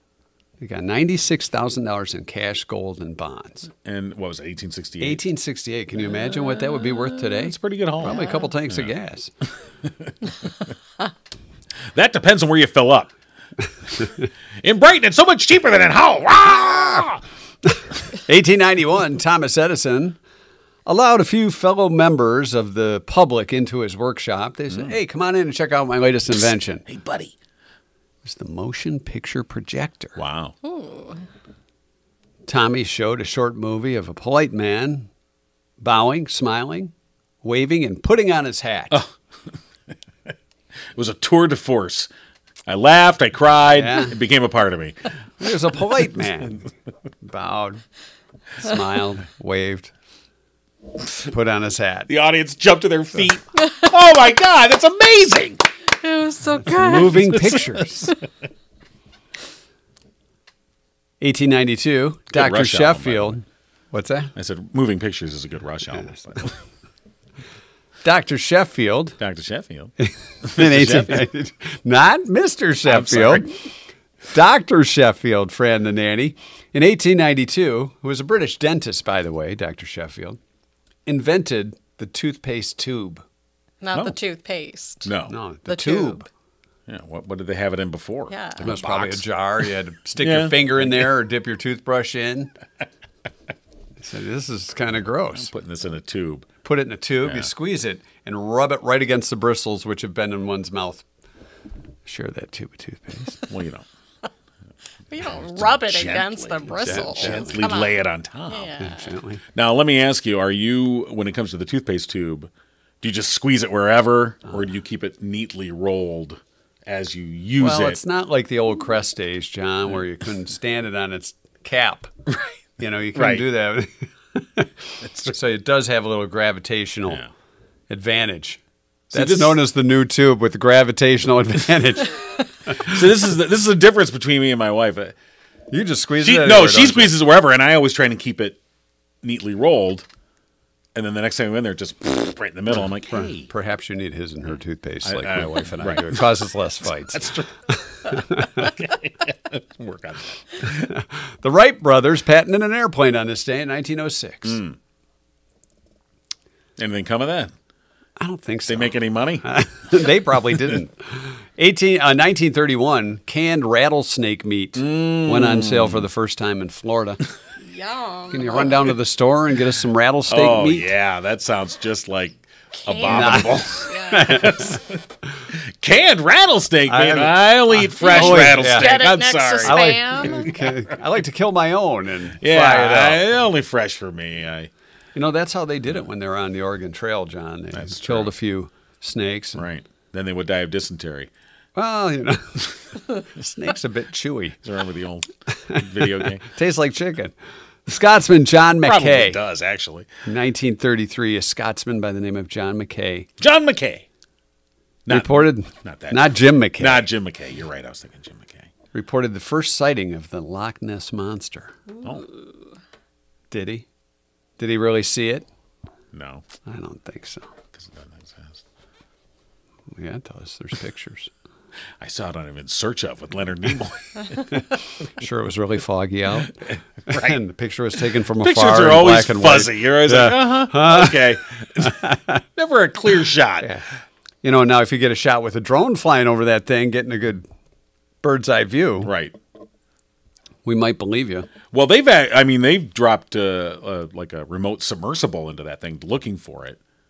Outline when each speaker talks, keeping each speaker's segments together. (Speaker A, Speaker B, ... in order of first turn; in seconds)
Speaker A: 0.6-3.7, 5.0-9.3, 18.3-20.2, 20.9-26.9, 28.2-30.2, 32.5-35.1, 35.8-39.1, 43.7-44.1, 45.4-46.6, 47.2-47.8, 48.6-49.9, 51.2-52.1, 56.6-58.1, 61.2-64.3, 68.0-69.2, 70.0-73.5, 74.3-80.4, 81.1-83.2, 85.3-86.3, 88.6-92.5, 94.0-95.5, 96.6-101.1, 102.1-103.4, 106.7-107.6, 108.8-109.4, 117.6-122.1, 122.8-127.2, 127.9-128.6, 129.1-132.2, 135.7-137.2, 143.1-148.7, 150.8-154.6, 158.2-167.2, 168.3-170.9, 173.1-174.8, 176.9-179.1, 179.6-183.2, 185.2-189.6, 191.8-194.6, 195.7-197.3, 197.9-199.4, 200.3-203.3, 205.1-207.1, 208.9-211.8, 213.5-213.9, 214.6-215.5, 216.7-217.5, 220.0-221.3, 225.2-232.4, 234.4-237.5, 238.2-239.1, 240.7-241.5
Speaker B: 3.8-5.2, 7.3-8.9, 11.9-13.1, 14.6-17.2, 26.9-27.3, 30.2-30.5, 41.0-42.1, 42.7-45.0, 52.1-55.6, 57.1-58.1, 62.3-63.4, 64.4-66.6, 69.2-69.9, 70.5-71.3, 72.9-73.5, 85.0-85.3, 86.9-89.3, 90.2-90.9, 95.4-96.5, 103.5-103.9, 105.2-108.7, 109.5-112.5, 113.0-118.0, 123.2-123.4, 129.1-129.6, 132.8-135.2, 136.2-138.6, 139.2-140.1, 140.9-143.5, 145.1-146.3, 147.1-147.5, 148.1-150.9, 154.4-154.8, 156.8-157.5, 158.7-159.4, 164.8-166.0, 170.3-175.0, 175.8-180.3, 182.4-184.7, 187.7-188.3, 189.6-191.3, 194.6-196.4, 198.8-200.1, 203.4-204.1, 205.1-208.7, 216.1-216.4, 217.8-218.6, 222.0-224.4, 227.1-227.3, 228.4-232.0, 232.6-233.7, 239.0-239.4, 241.7-246.8
Speaker C: 30.6-31.2, 56.0-57.3, 83.8-85.1, 85.7-86.2, 88.3-88.7, 105.1-109.1, 167.7-168.9, 172.9-174.4, 178.0-180.6